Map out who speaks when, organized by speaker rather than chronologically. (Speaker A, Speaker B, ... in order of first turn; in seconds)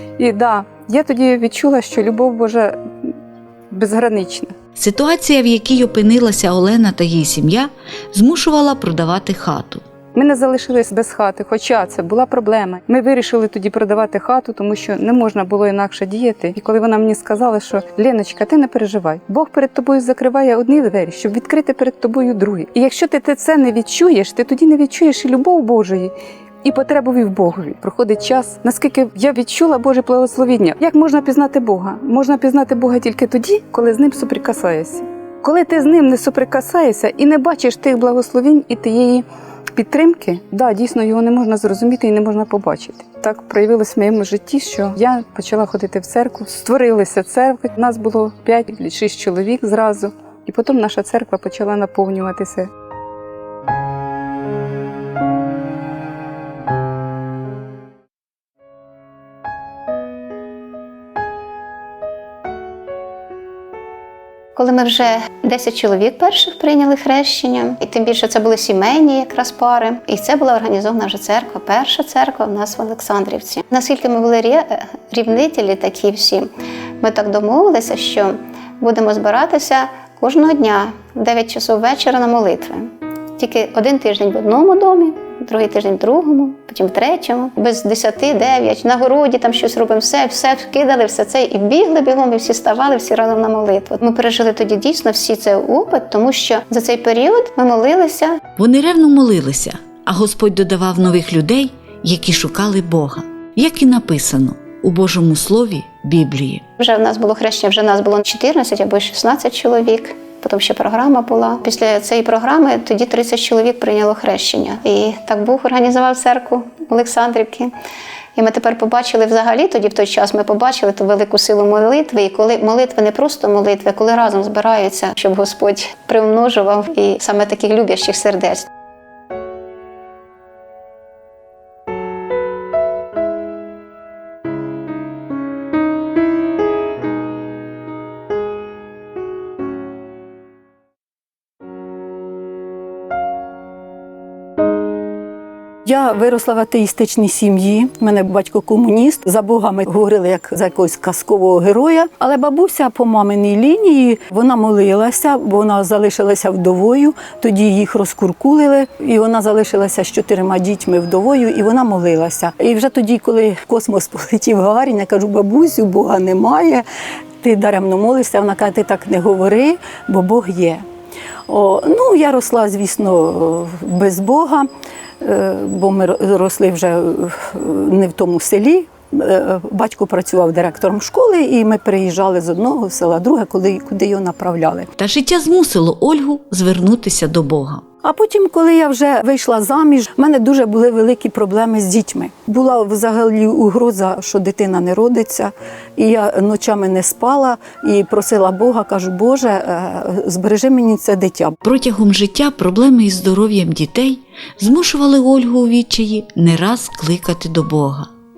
Speaker A: 0.2-3.1, 3.7-4.5, 10.1-52.7
Speaker B: 4.8-9.8, 98.6-106.6, 185.0-187.8, 201.6-208.1
Speaker C: 64.5-76.5, 77.0-98.4, 106.8-117.7, 118.3-128.7
Speaker D: 145.8-166.8, 167.4-170.8, 171.5-174.7, 175.2-184.9, 188.0-201.6